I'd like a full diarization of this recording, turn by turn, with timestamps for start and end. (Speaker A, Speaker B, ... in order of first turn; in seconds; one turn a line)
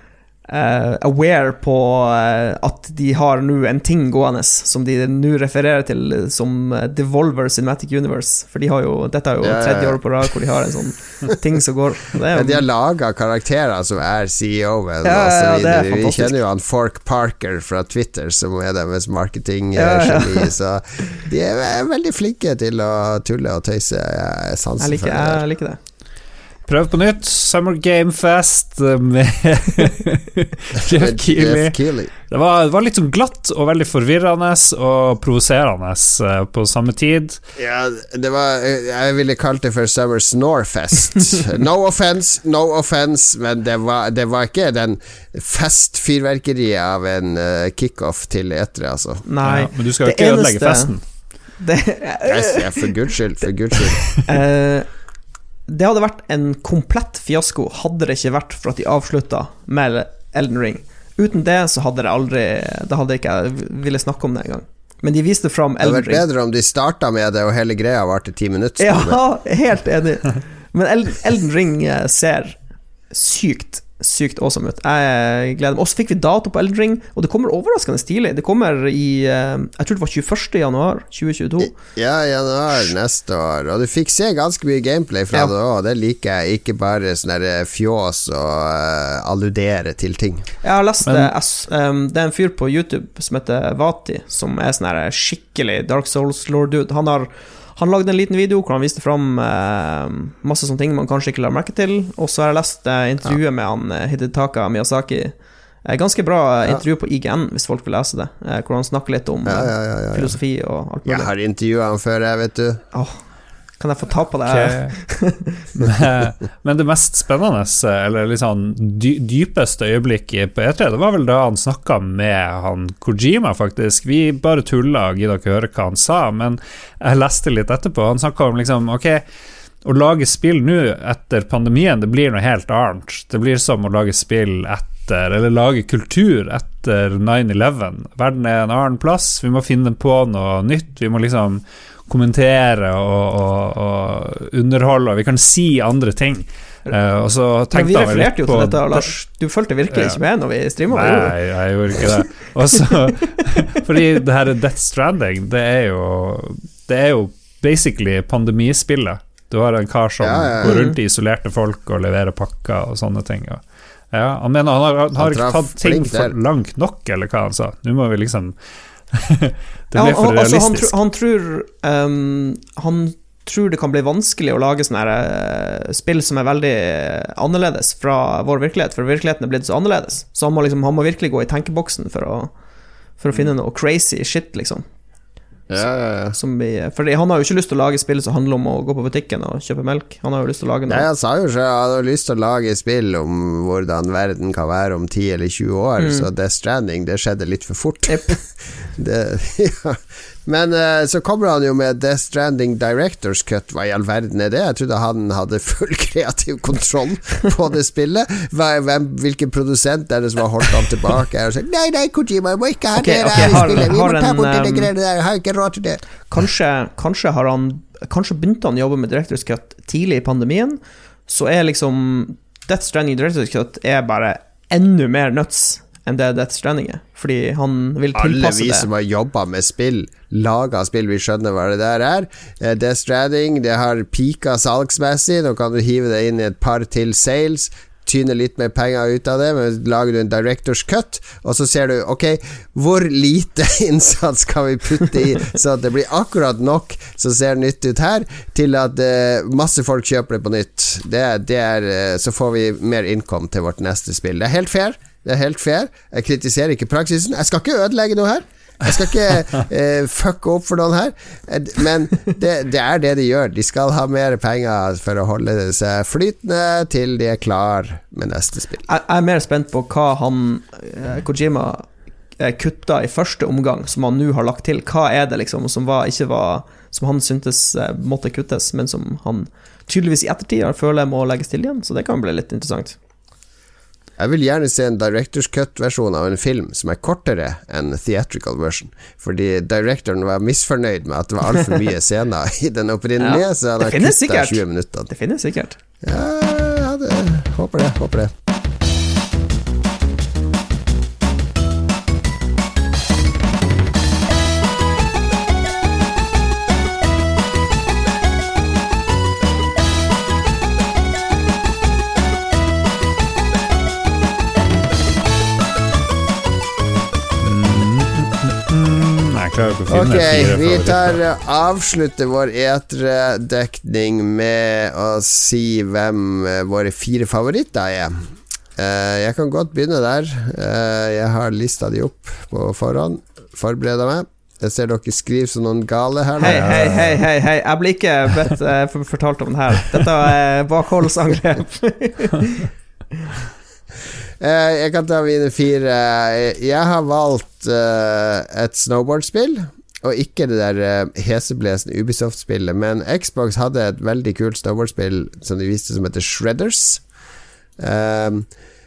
Speaker A: 0.5-12.6
Speaker B: 9.4-10.0
Speaker B: 12.3-25.4
Speaker A: 15.0-16.3
Speaker A: 19.7-20.5
Speaker A: 24.8-25.8
Speaker C: 26.7-37.4
Speaker B: 30.9-32.1
Speaker B: 37.5-49.2
Speaker A: 49.2-50.9
Speaker C: 49.4-51.0
Speaker A: 51.6-52.9
Speaker B: 52.2-54.1
Speaker A: 54.2-54.9
Speaker A: 55.7-66.2
Speaker B: 65.8-69.2
Speaker A: 68.8-72.6
Speaker A: 73.1-81.7
Speaker B: 81.6-90.5
Speaker A: 90.6-111.3
Speaker C: 91.1-91.3
Speaker B: 109.5-110.3
Speaker B: 111.0-112.8
Speaker A: 113.8-115.6
Speaker C: 114.5-115.0
Speaker C: 115.8-129.2
Speaker C: 129.8-149.1
Speaker A: 147.7-151.3
Speaker C: 149.9-150.2
Speaker C: 150.9-168.5
Speaker B: 160.2-160.7
Speaker A: 160.6-161.0
Speaker B: 165.2-166.3
Speaker C: 169.1-170.9
Speaker A: 169.9-182.5
Speaker A: 183.2-184.8
Speaker B: 185.7-186.3
Speaker A: 186.3-191.1
Speaker B: 190.9-216.0
Speaker A: 196.0-196.3
Speaker A: 198.1-198.3
Speaker A: 212.9-214.9
Speaker A: 216.3-228.9
Speaker B: 228.1-268.9
Speaker A: 268.9-271.9
Speaker A: 272.4-283.0
Speaker B: 284.2-295.1
Speaker A: 293.2-295.8
Speaker B: 296.0-298.3
Speaker C: 317.4-321.2
Speaker B: 319.9-336.9
Speaker A: 336.4-342.7
Speaker C: 336.4-337.2
Speaker B: 344.4-357.0
Speaker B: 357.8-358.5